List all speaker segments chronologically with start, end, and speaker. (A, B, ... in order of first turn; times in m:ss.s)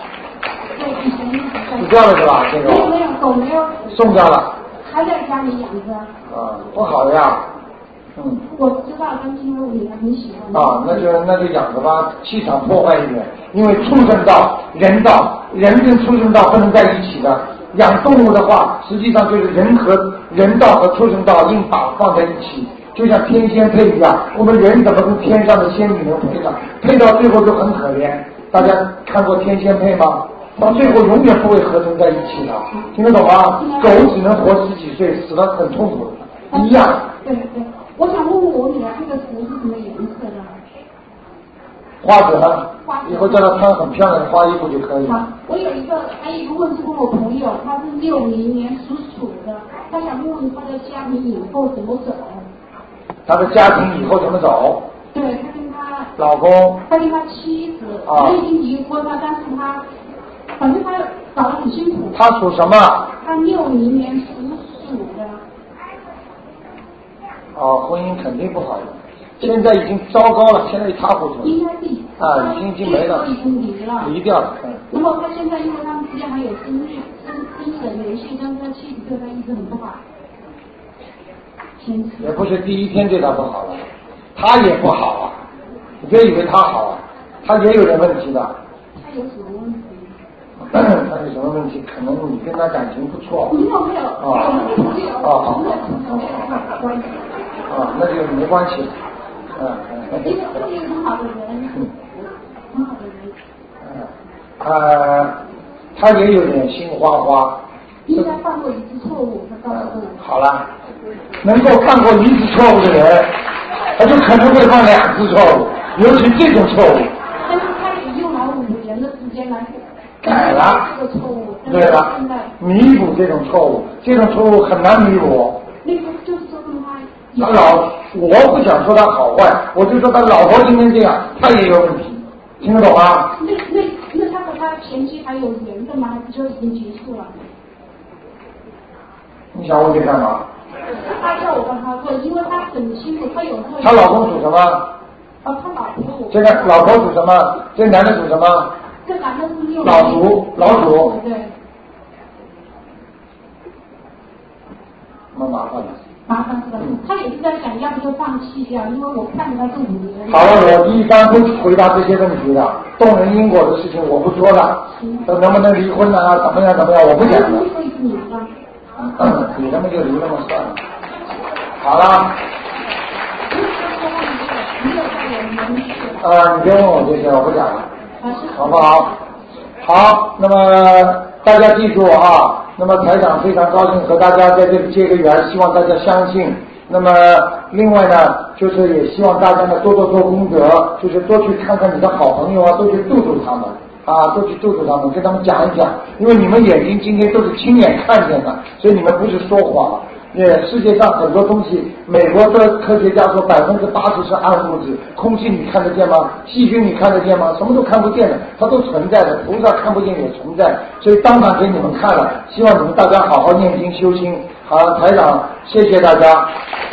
0:00.7-0:02.0 A
0:01.8-0:02.9 B
0:02.6-0:04.0 A
0:03.9-0:04.5 B
0:04.8-0:06.1 A
0:06.3-0:07.4 B
0:08.2-0:08.4 B
0:08.4-0:11.1 A
0:10.5-0:37.1 B
0:33.6-0:34.1 A
0:36.5-0:40.6 A
0:42.0-0:45.2 B
0:42.8-0:43.5 A
0:45.0-0:52.4 A
0:53.3-0:54.8 B
0:55.1-0:56.1 A
0:56.2-0:56.8 B
0:56.9-0:59.8 A
0:58.0-0:58.4 B
1:00.6-1:02.2 A
1:02.1-1:03.1 B
1:03.2-1:05.4 A
1:07.5-1:11.6 B
1:11.4-1:14.1 A
1:12.2-1:13.3 B
1:14.0-1:14.8 B
1:14.9-1:20.0 A
1:21.8-1:22.3 A
1:22.2-1:25.3 B
1:26.0-1:28.5 B
1:28.9-1:30.1 A
1:30.6-1:33.6 B
1:33.5-1:37.3 A
1:34.2-1:36.6 B
1:37.7-1:39.0 B
1:39.6-1:40.4 B
1:40.2-1:43.3 A
1:44.6-1:45.4 B
1:45.9-1:47.6 B
1:48.1-1:50.2 A
1:49.7-1:50.6 B
1:51.4-1:53.3 B
1:54.0-1:57.1 B
1:57.4-2:02.5 A
2:00.2-2:00.9 B
2:01.6-2:05.6 B
2:05.8-2:07.8 A
2:07.4-2:13.3 B
2:13.4-2:17.4 A
2:19.5-2:20.4 B
2:21.0-2:24.1 A
2:23.8-2:24.9 B
2:25.4-2:26.5 A
2:26.3-2:28.7 B
2:29.0-2:31.5 A
2:29.8-2:31.1 B
2:35.3-2:36.0 B
2:36.3-2:40.6 A
2:40.3-2:47.7 B
2:45.0-2:45.3 A
2:47.2-2:48.5 A
2:49.0-2:50.8 B
2:51.8-2:52.4 B
2:53.5-2:56.3 A
2:56.2-2:57.9 B
2:58.2-2:59.2 A
2:58.5-2:59.1 B
2:59.8-3:36.5 B